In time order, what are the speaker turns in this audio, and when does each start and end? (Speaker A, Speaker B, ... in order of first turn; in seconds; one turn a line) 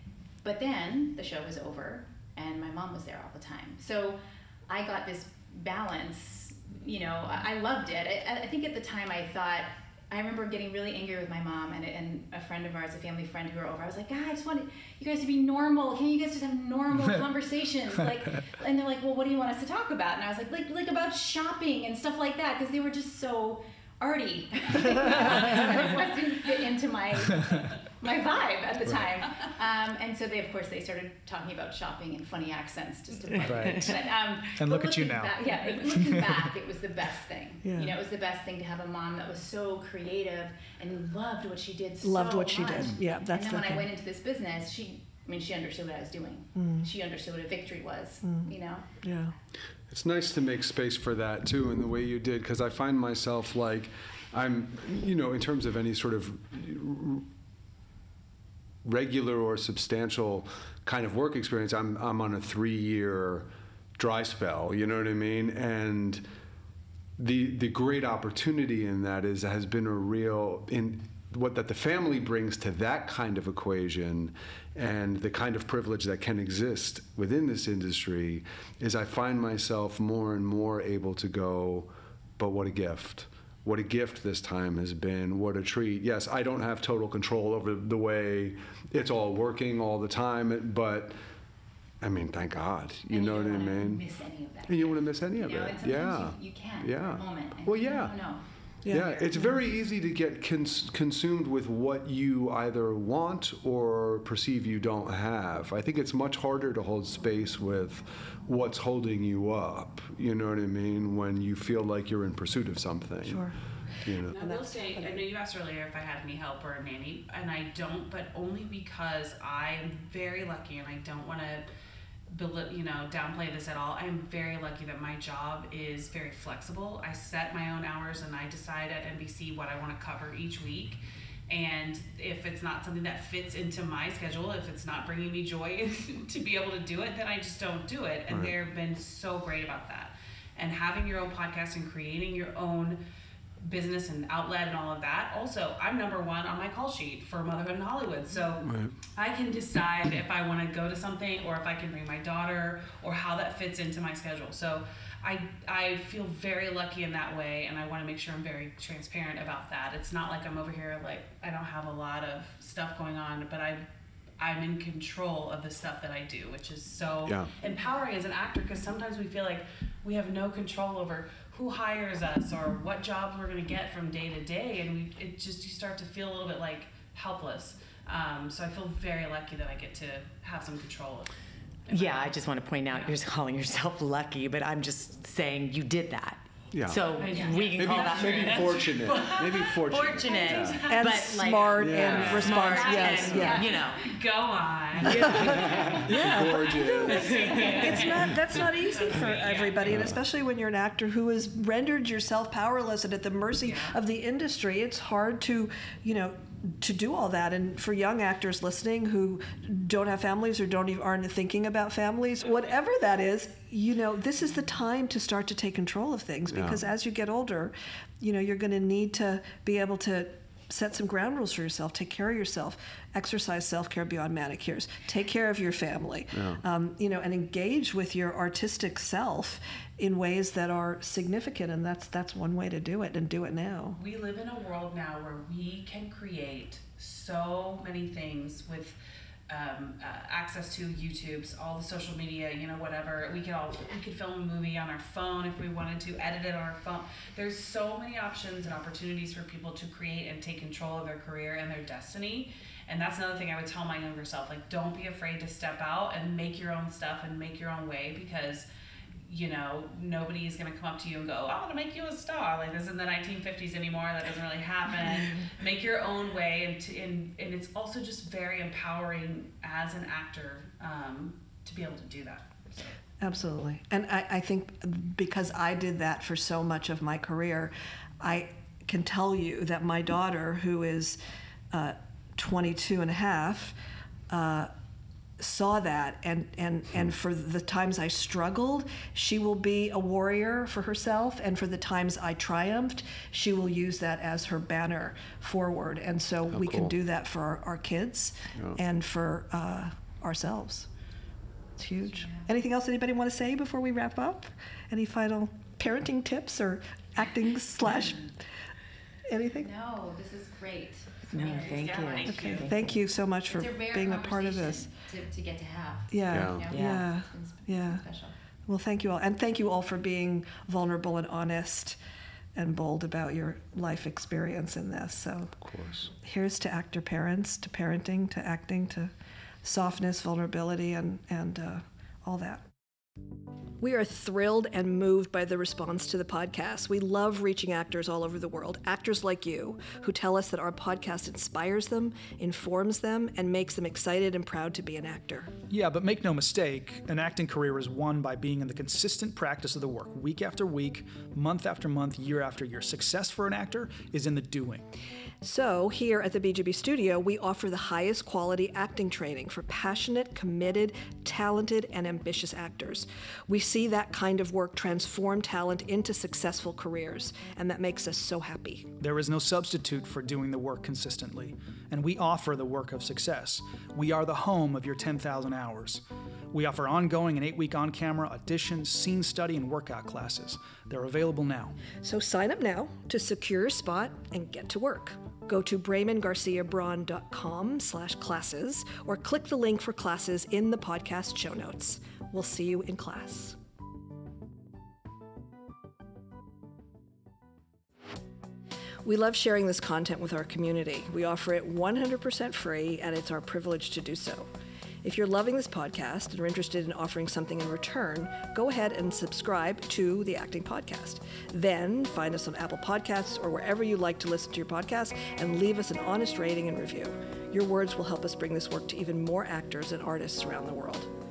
Speaker A: 0.4-48.9
Speaker B: 33.4-34.0
Speaker B: 34.5-36.5
Speaker C: 37.6-38.0
Speaker C: 42.0-43.9
Speaker C: 46.6-46.9
Speaker C: 48.2-49.4
Speaker D: 49.9-57.3
Speaker D: 58.8-66.2
Speaker D: 67.2-91.2
Speaker D: 92.0-94.1
Speaker A: 93.1-99.5
Speaker D: 94.7-98.2
Speaker C: 98.8-99.6
Speaker D: 98.9-113.5
Speaker C: 113.2-113.6
Speaker D: 114.0-114.4
Speaker E: 114.3-121.7
Speaker C: 114.3-115.2
Speaker E: 122.3-143.0
Speaker D: 138.3-138.5
Speaker E: 143.6-163.8
Speaker D: 148.6-149.0
Speaker E: 164.4-181.3
Speaker D: 167.3-167.5
Speaker E: 181.9-183.2
Speaker F: 181.9-194.2
Speaker D: 186.7-187.1
Speaker E: 187.2-191.1
Speaker A: 187.3-187.6
Speaker D: 187.8-190.9
Speaker C: 190.9-193.7
Speaker D: 191.8-192.6
Speaker E: 192.6-196.3
Speaker A: 192.8-193.9
Speaker D: 195.0-198.6
Speaker C: 195.1-234.0
Speaker E: 197.0-199.9
Speaker A: 197.2-197.9
Speaker E: 203.6-204.0
Speaker D: 216.5-216.8
Speaker D: 226.3-226.6
Speaker E: 234.0-239.0
Speaker E: 239.5-258.6
Speaker E: 259.2-273.0
Speaker C: 265.1-265.4
Speaker C: 273.2-281.2
Speaker C: 281.7-283.8
Speaker C: 284.3-284.7
Speaker C: 285.4-300.9
Speaker D: 296.5-296.9
Speaker C: 301.8-308.3
Speaker A: 302.2-302.5
Speaker C: 309.3-309.7
Speaker A: 309.6-312.6
Speaker F: 311.3-312.9
Speaker E: 311.4-312.7
Speaker C: 312.3-314.9
Speaker A: 313.5-318.3
Speaker C: 316.1-318.0
Speaker D: 316.3-316.7
Speaker F: 316.6-317.1
Speaker C: 318.7-322.0
Speaker C: 322.6-325.6
Speaker D: 325.6-326.1
Speaker C: 326.1-332.7
Speaker C: 333.8-345.5
Speaker B: 345.7-354.9
Speaker C: 355.4-368.9
Speaker B: 369.0-381.8
Speaker C: 382.0-393.6
Speaker C: 399.0-404.5
Speaker C: 405.0-421.1